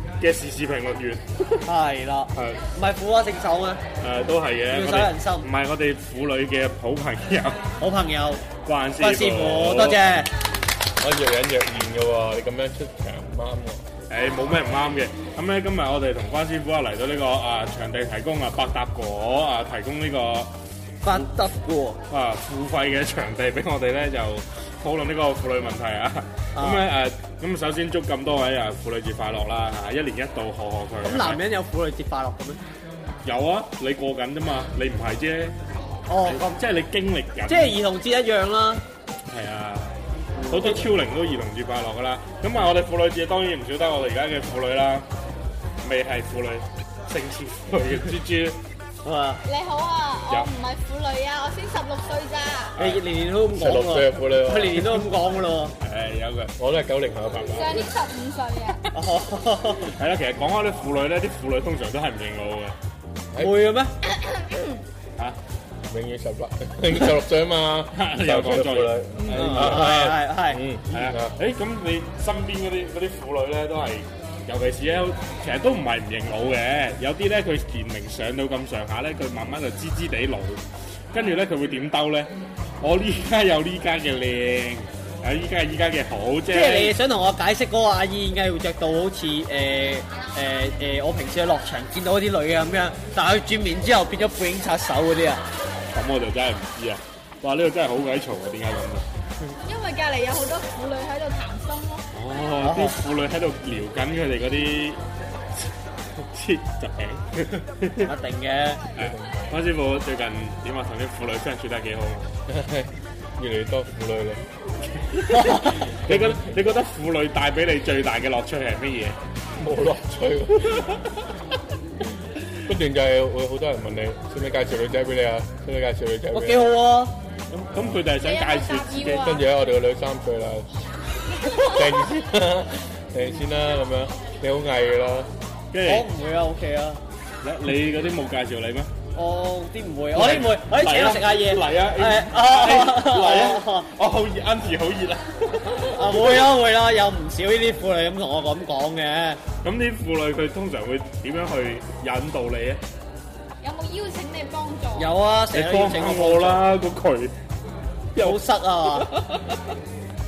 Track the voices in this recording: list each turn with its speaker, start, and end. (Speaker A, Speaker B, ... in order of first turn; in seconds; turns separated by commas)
Speaker A: 0.2-1.7, Speaker B: 1.7-3.8, Speaker A: 2.3-2.6, Speaker A: 4.0-7.6, Speaker B: 4.7-5.5, Speaker B: 7.8-8.4, Speaker A: 8.6-10.0, Speaker B: 9.0-10.3, Speaker C: 11.0-13.8, Speaker A: 14.1-20.5, Speaker B: 21.0-22.0, Speaker A: 22.1-31.4, Speaker B: 26.6-26.9, Speaker B: 31.0-32.6, Speaker A: 33.2-35.6, Speaker B: 36.1-36.6, Speaker A: 36.2-37.8, Speaker B: 37.5-38.8, Speaker A: 39.3-39.9, Speaker B: 40.4-40.9, Speaker A: 40.5-45.1, Speaker A: 45.8-48.6, Speaker B: 49.0-49.4, Speaker D: 49.4-52.8, Speaker A: 52.8-53.0, Speaker B: 52.8-55.7, Speaker C: 53.5-55.1, Speaker A: 55.8-56.5, Speaker C: 56.6-57.7, Speaker A: 57.3-57.8, Speaker D: 57.5-58.9, Speaker B: 58.9-59.9, Speaker A: 59.8-62.8, Speaker B: 63.4-64.0, Speaker D: 64.1-64.8, Speaker C: 65.9-71.4, Speaker A: 67.9-70.0, Speaker B: 69.3-70.6, Speaker A: 70.9-87.0, Speaker B: 86.5-95.4, Speaker A: 95.9-99.1, Speaker D: 99.5-102.1, Speaker A: 102.1-105.0, Speaker B: 102.6-103.0, Speaker A: 105.5-108.1, Speaker B: 108.0-108.8, Speaker A: 108.9-112.3, Speaker C: 109.0-109.3, Speaker C: 112.5-114.4, Speaker A: 115.0-119.2, Speaker C: 115.3-116.4, Speaker C: 119.6-121.1, Speaker C: 122.6-126.8, Speaker B: 126.3-127.2, Speaker A: 127.5-129.4, Speaker D: 128.1-129.4, Speaker C: 129.1-130.7, Speaker C: 131.4-135.3, Speaker A: 135.7-136.1, Speaker B: 135.8-137.0, Speaker A: 137.4-138.9, Speaker B: 139.2-143.9, Speaker A: 140.1-146.5, Speaker B: 145.9-149.4, Speaker A: 149.6-152.8, Speaker D: 153.6-155.1, Speaker B: 154.9-156.7, Speaker A: 155.5-157.3, Speaker A: 158.2-159.6, Speaker B: 158.2-159.1